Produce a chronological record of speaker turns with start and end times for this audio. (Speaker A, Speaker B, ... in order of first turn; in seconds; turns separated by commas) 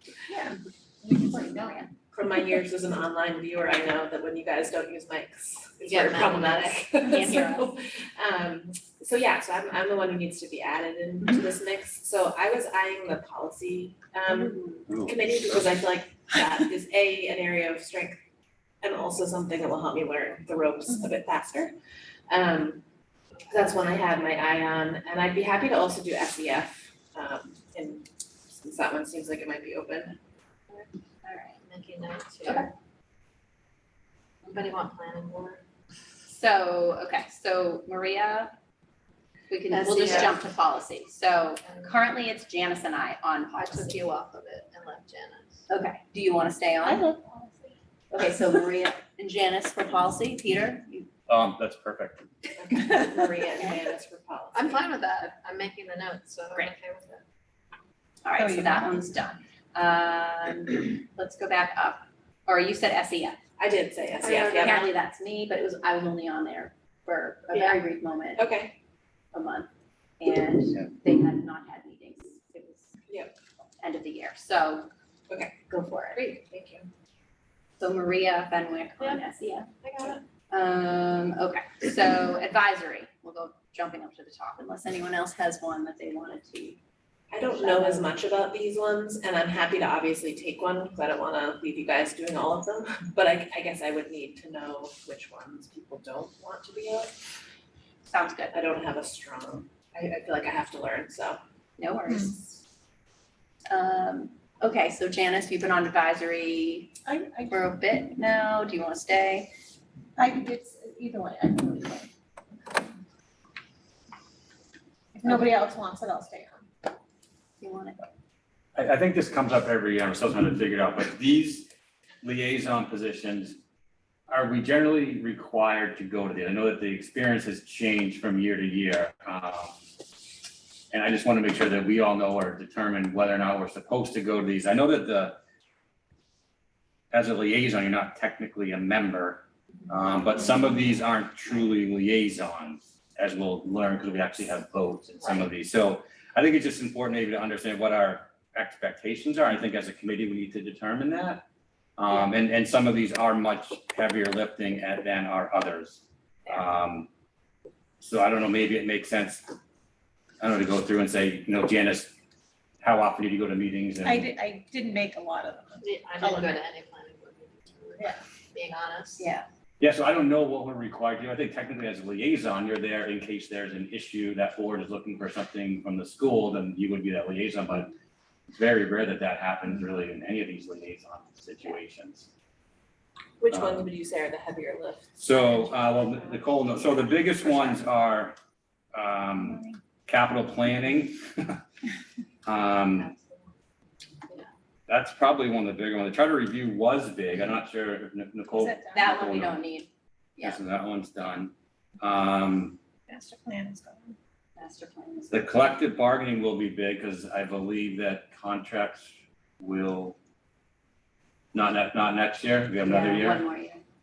Speaker A: 0.3-0.6, Speaker B: 1.0-1.8, Speaker A: 1.1-1.9, Speaker C: 2.1-18.2, Speaker D: 5.8-6.7, Speaker A: 7.0-7.7, Speaker A: 14.5-14.8, Speaker E: 14.9-15.1, Speaker C: 18.8-21.8, Speaker C: 22.3-22.8, Speaker C: 23.5-30.1, Speaker A: 31.2-31.6, Speaker D: 31.6-32.7, Speaker D: 34.5-35.6, Speaker A: 36.3-38.5, Speaker A: 39.5-44.0, Speaker D: 39.7-40.4, Speaker D: 41.6-41.9, Speaker D: 43.5-45.6, Speaker A: 45.7-47.0, Speaker B: 46.8-47.7, Speaker A: 48.1-51.1, Speaker E: 51.3-52.2, Speaker C: 52.6-54.8, Speaker D: 54.5-57.2, Speaker A: 58.2-63.4, Speaker B: 58.4-58.9, Speaker C: 63.6-64.9, Speaker D: 64.2-64.7, Speaker A: 64.6-68.5, Speaker C: 67.5-67.8, Speaker C: 68.4-68.8, Speaker A: 69.3-69.7, Speaker A: 70.2-72.9, Speaker C: 73.1-73.3, Speaker A: 73.8-74.9, Speaker C: 75.3-75.5, Speaker A: 75.7-76.2, Speaker C: 76.1-76.9, Speaker A: 77.8-79.7, Speaker D: 79.8-80.2, Speaker C: 79.9-80.2, Speaker A: 80.5-86.8, Speaker C: 87.3-97.1, Speaker A: 87.5-88.1, Speaker A: 98.1-98.5, Speaker C: 98.5-101.4, Speaker A: 101.8-102.6, Speaker B: 102.1-102.3, Speaker A: 103.7-106.9, Speaker B: 107.0-107.6, Speaker A: 107.5-109.5, Speaker B: 110.2-112.1, Speaker B: 115.1-116.7, Speaker A: 117.6-118.1, Speaker E: 118.8-121.7, Speaker E: 122.2-123.6, Speaker E: 124.3-129.8, Speaker E: 130.9-135.4, Speaker E: 137.1-151.4, Speaker E: 152.0-157.1, Speaker E: 158.0-159.4, Speaker E: 160.4-162.1, Speaker E: 162.8-164.2, Speaker B: 164.0-166.6, Speaker D: 165.8-169.2, Speaker A: 169.2-169.4, Speaker E: 169.8-177.9, Speaker E: 178.5-182.3, Speaker C: 183.4-185.1, Speaker E: 183.5-183.8, Speaker E: 185.2-188.3, Speaker C: 186.0-186.8, Speaker E: 188.9-191.6, Speaker E: 192.4-193.1, Speaker E: 194.9-199.6, Speaker B: 198.5-199.1, Speaker A: 198.9-200.6, Speaker E: 200.4-202.8, Speaker B: 203.1-204.2, Speaker A: 204.6-205.7, Speaker E: 205.3-210.2, Speaker E: 211.5-213.4, Speaker A: 212.8-213.8